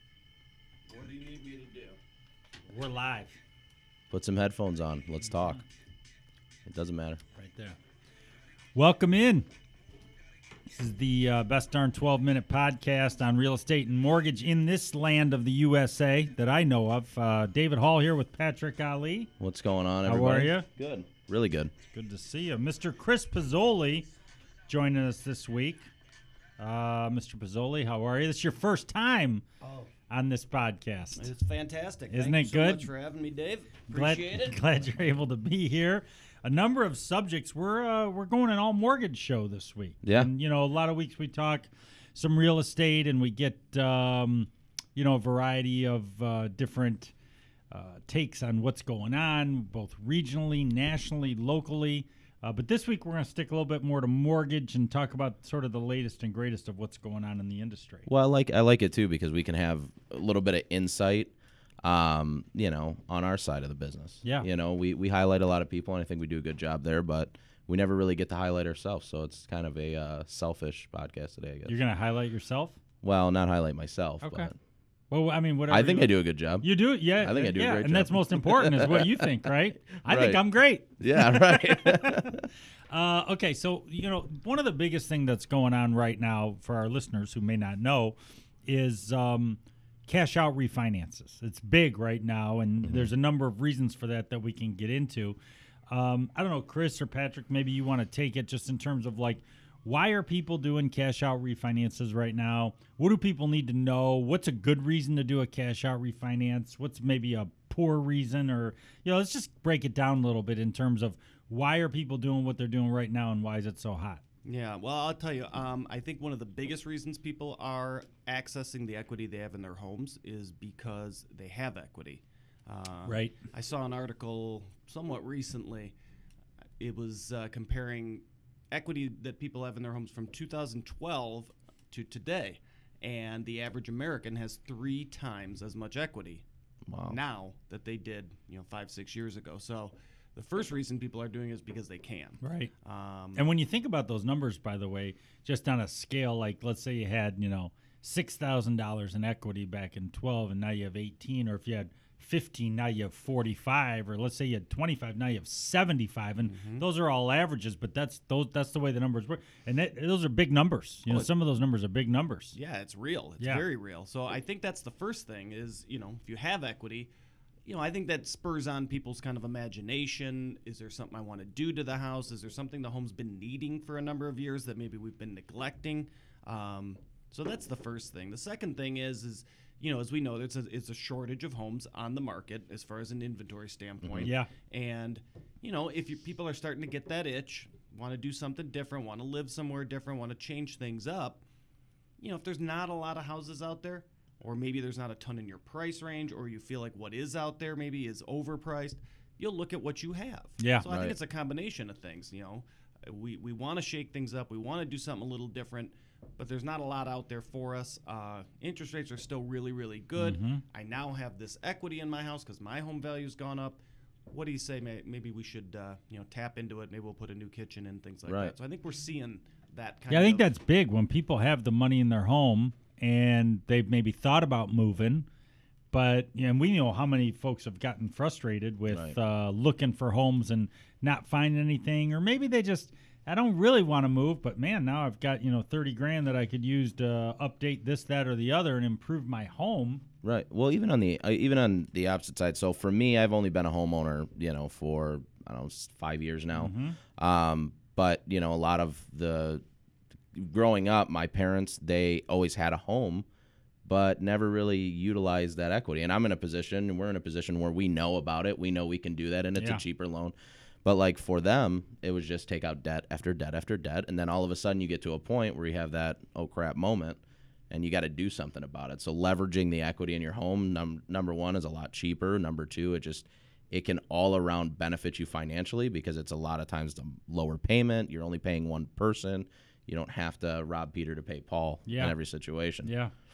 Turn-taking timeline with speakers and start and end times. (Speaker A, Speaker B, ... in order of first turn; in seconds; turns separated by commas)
Speaker A: 0.9-2.0, Speaker B: 2.7-3.4, Speaker C: 4.1-5.6, Speaker B: 5.2-5.6, Speaker C: 6.7-7.2, Speaker B: 7.3-7.8, Speaker B: 8.7-9.5, Speaker B: 10.7-19.3, Speaker C: 19.4-21.7, Speaker B: 20.0-20.7, Speaker B: 21.9-24.1, Speaker B: 24.7-25.9, Speaker B: 26.6-29.4, Speaker A: 29.6-29.9, Speaker B: 30.1-31.3, Speaker A: 31.1-34.6, Speaker B: 32.1-32.9, Speaker B: 33.9-47.1, Speaker C: 40.0-40.3, Speaker B: 47.7-58.1, Speaker C: 58.1-61.3, Speaker C: 61.8-71.8, Speaker B: 71.7-72.8, Speaker C: 73.0-74.5, Speaker B: 74.2-74.5, Speaker B: 75.1-82.3, Speaker C: 75.7-79.0, Speaker C: 80.0-80.4, Speaker C: 81.0-82.5, Speaker B: 82.9-95.4, Speaker C: 92.8-93.1, Speaker B: 95.9-114.2, Speaker A: 114.4-125.9, Speaker B: 123.0-123.3, Speaker A: 126.8-136.4, Speaker C: 136.9-137.2, Speaker A: 137.1-143.5, Speaker B: 142.4-142.7, Speaker B: 143.3-162.6, Speaker A: 156.5-156.8, Speaker A: 162.5-167.1, Speaker A: 167.6-191.4, Speaker C: 184.0-184.3, Speaker B: 184.2-184.5, Speaker A: 192.2-220.5, Speaker B: 200.6-200.8, Speaker C: 200.8-201.1, Speaker B: 210.2-210.6, Speaker C: 218.2-218.5, Speaker B: 220.1-225.3, Speaker B: 225.9-240.0, Speaker C: 228.9-229.1, Speaker C: 240.2-249.6, Speaker B: 246.5-247.0, Speaker C: 250.3-253.2, Speaker C: 253.8-282.9, Speaker B: 259.6-259.8, Speaker B: 281.9-282.1, Speaker B: 282.8-283.1